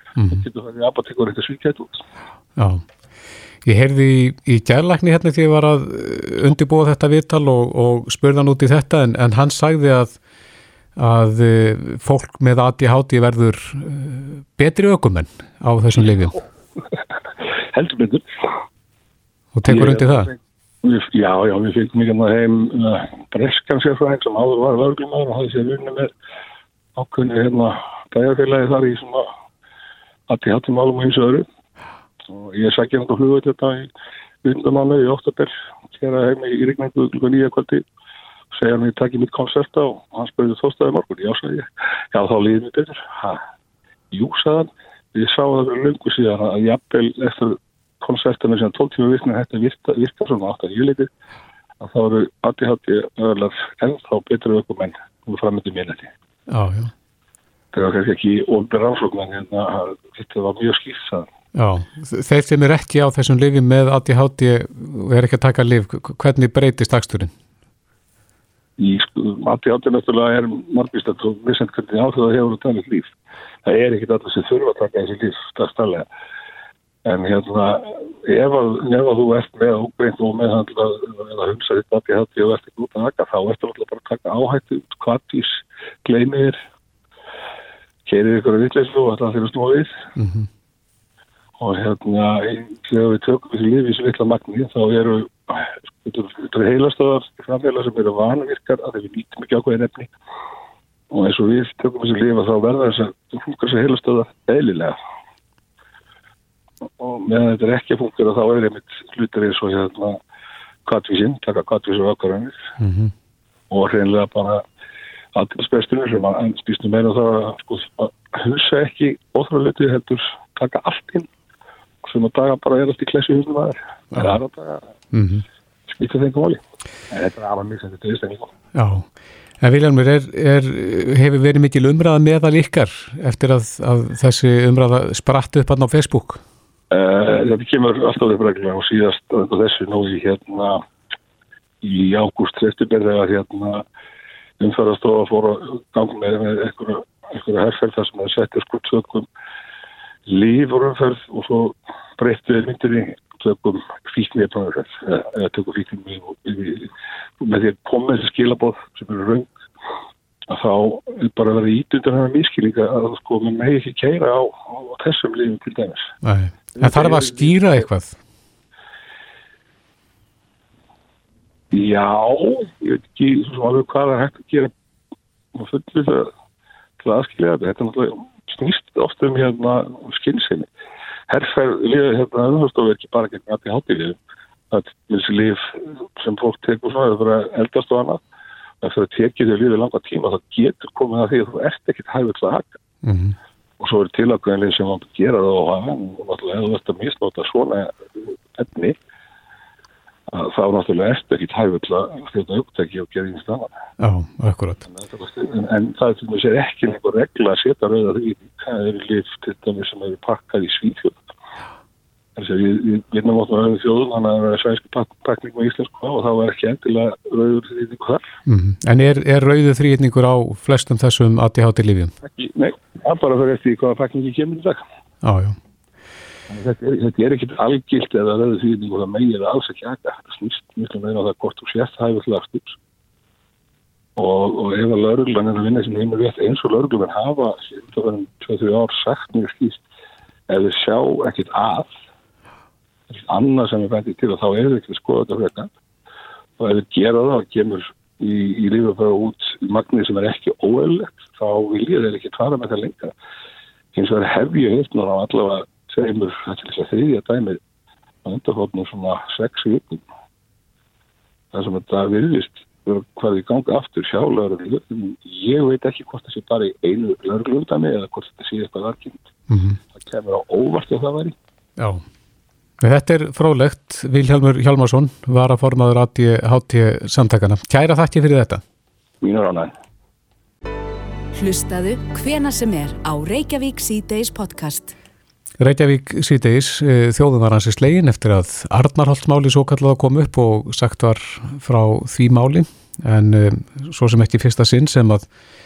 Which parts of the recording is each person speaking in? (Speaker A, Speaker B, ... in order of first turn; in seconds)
Speaker A: 0.2-0.4, 2.6-2.8, 3.6-10.2, 11.0-16.4, 19.5-20.3, 56.5-56.9, 61.5-67.3, 90.2-90.5, 112.8-113.1, 124.1-124.4, 125.1-125.4, 128.7-129.0, 129.6-136.4, 166.2-168.2, 193.0-193.4, 204.0-204.8, 218.5-222.1, 225.2-225.6, 269.5-269.8, 272.8-278.6, 285.6-295.2
Speaker B: 0.3-2.0, 17.7-18.3, 19.6-26.1, 26.9-29.3, 30.3-31.4, 32.3-33.9, 34.4-37.8, 38.5-43.4, 44.1-51.1, 51.8-56.1, 57.7-61.3, 68.8-76.0, 77.0-86.6, 88.0-89.9, 91.6-100.1, 101.1-105.0, 107.0-110.2, 110.8-112.6, 113.7-114.6, 115.3-121.3, 122.0-124.9, 125.9-128.5, 136.9-140.8, 141.8-143.8, 144.6-149.3, 150.3-159.5, 160.5-166.1, 166.8-167.5, 171.7-174.7, 175.5-176.3, 177.0-180.7, 181.3-184.2, 184.7-188.2, 188.8-192.8, 193.8-198.9, 200.3-203.7, 204.9-211.2, 212.4-218.2, 222.2-224.8, 226.5-232.8, 234.2-239.8, 240.5-241.9, 243.1-245.7, 246.6-253.1, 253.9-257.6, 258.2-260.0, 261.5-269.3, 269.9-271.3, 279.2-279.7
Speaker C: 281.3-284.9